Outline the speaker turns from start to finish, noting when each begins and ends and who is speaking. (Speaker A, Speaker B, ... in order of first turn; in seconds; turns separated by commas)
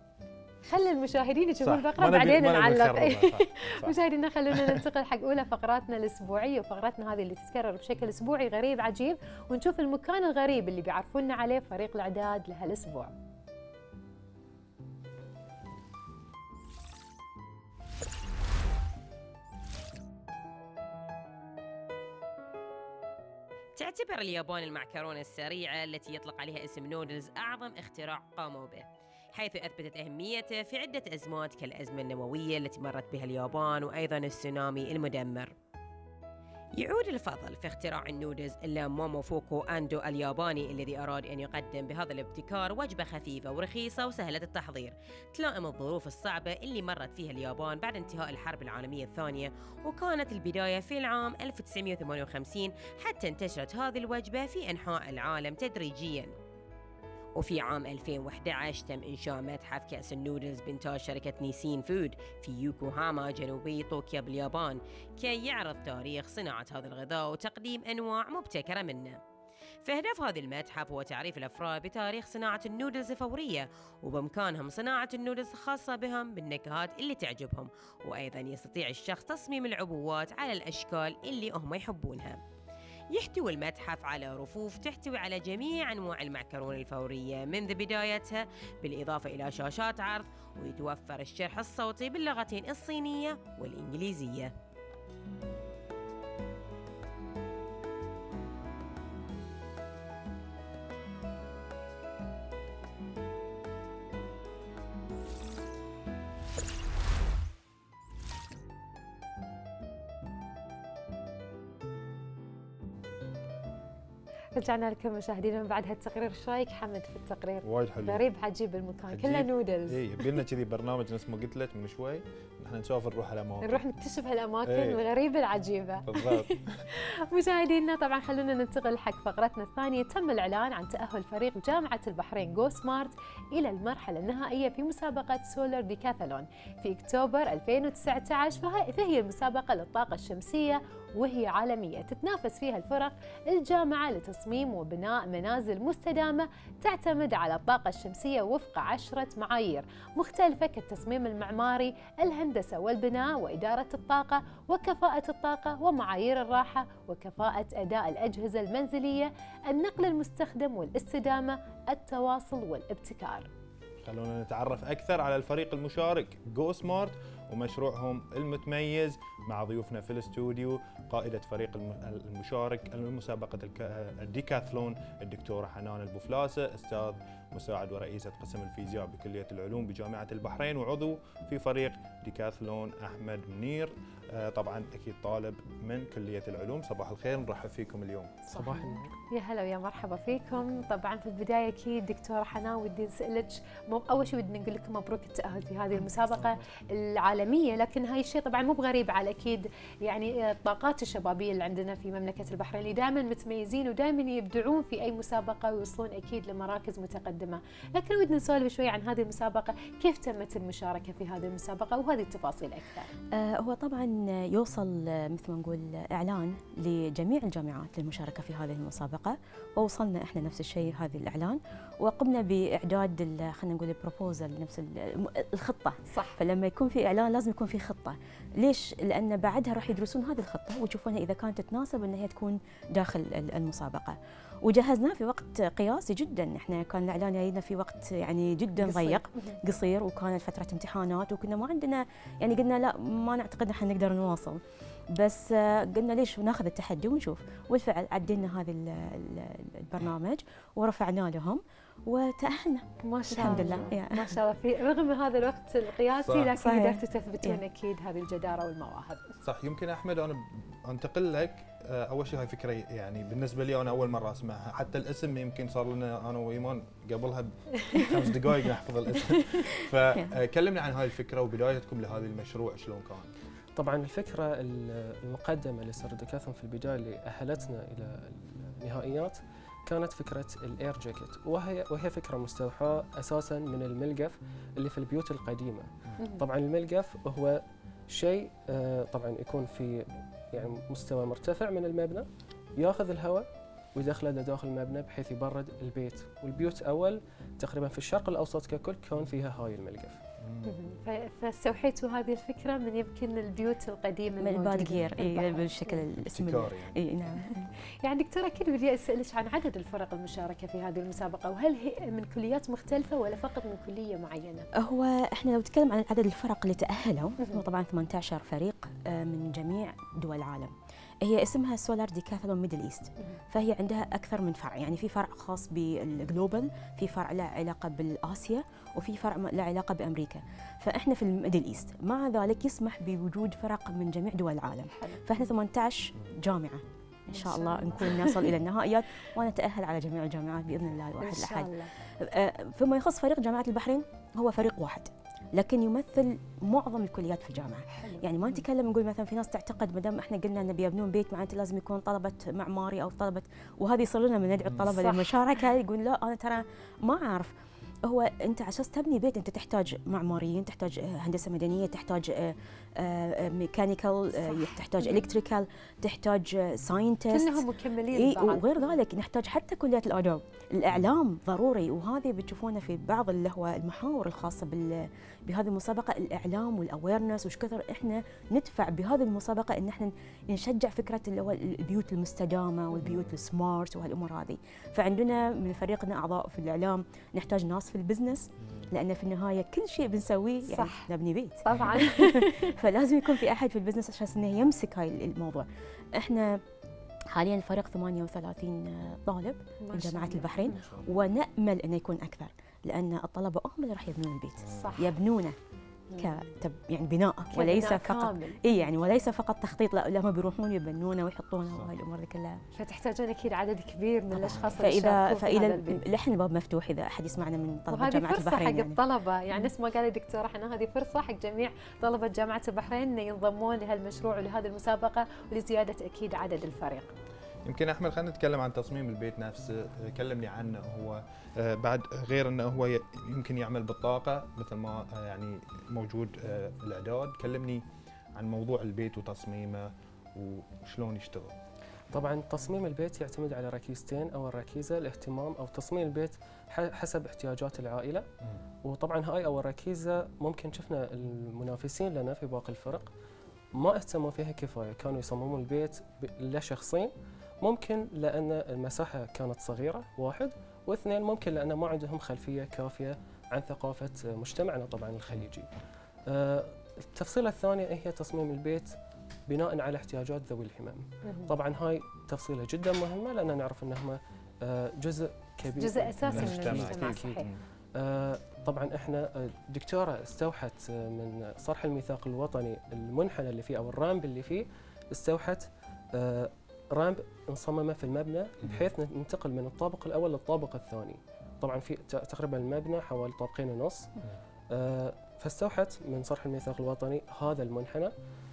Speaker A: 0.7-13.1, Speaker B: 1.6-4.0, Speaker B: 4.5-4.8, Speaker C: 23.8-28.8, Speaker C: 29.3-35.5, Speaker C: 36.8-56.3, Speaker C: 57.4-69.2, Speaker C: 69.8-82.4, Speaker C: 83.1-94.5, Speaker A: 114.5-120.0, Speaker B: 117.6-118.2, Speaker B: 119.1-123.8, Speaker A: 123.6-163.5, Speaker B: 124.6-125.0, Speaker B: 126.0-126.8, Speaker B: 164.0-188.4, Speaker D: 188.4-189.1, Speaker A: 188.5-213.1, Speaker D: 196.4-196.6, Speaker E: 213.3-244.6, Speaker A: 226.1-226.4, Speaker A: 238.8-239.6, Speaker E: 245.1-254.3, Speaker A: 253.0-259.3, Speaker B: 256.2-256.5, Speaker E: 256.5-257.6, Speaker B: 259.4-273.3, Speaker E: 269.2-270.3, Speaker D: 273.8-292.2, Speaker D: 292.8-300.2, Speaker B: 300.4-300.9, Speaker A: 300.6-306.0, Speaker E: 304.4-307.7, Speaker B: 306.3-307.0, Speaker A: 308.0-314.6, Speaker E: 314.8-357.5, Speaker A: 334.9-335.5, Speaker A: 337.3-338.5, Speaker A: 341.2-341.9, Speaker A: 347.9-348.6, Speaker A: 354.9-355.6, Speaker E: 358.0-396.6, Speaker A: 364.4-365.2, Speaker A: 367.3-368.9, Speaker B: 383.0-383.4, Speaker A: 390.6-391.1, Speaker A: 391.6-392.7, Speaker E: 397.3-405.6, Speaker A: 399.8-401.0, Speaker B: 404.6-405.0, Speaker A: 404.7-405.1, Speaker A: 406.1-406.5, Speaker E: 406.1-412.6, Speaker A: 407.5-408.7, Speaker A: 412.7-416.0, Speaker E: 414.3-419.0, Speaker A: 417.9-427.1, Speaker B: 427.6-437.8, Speaker B: 438.4-441.5, Speaker D: 442.1-448.2, Speaker D: 448.8-453.1, Speaker D: 453.8-465.7, Speaker D: 466.2-468.9, Speaker D: 469.5-477.4, Speaker A: 471.2-471.5, Speaker A: 475.8-477.5, Speaker B: 476.2-477.6, Speaker D: 478.0-494.1, Speaker D: 494.7-498.1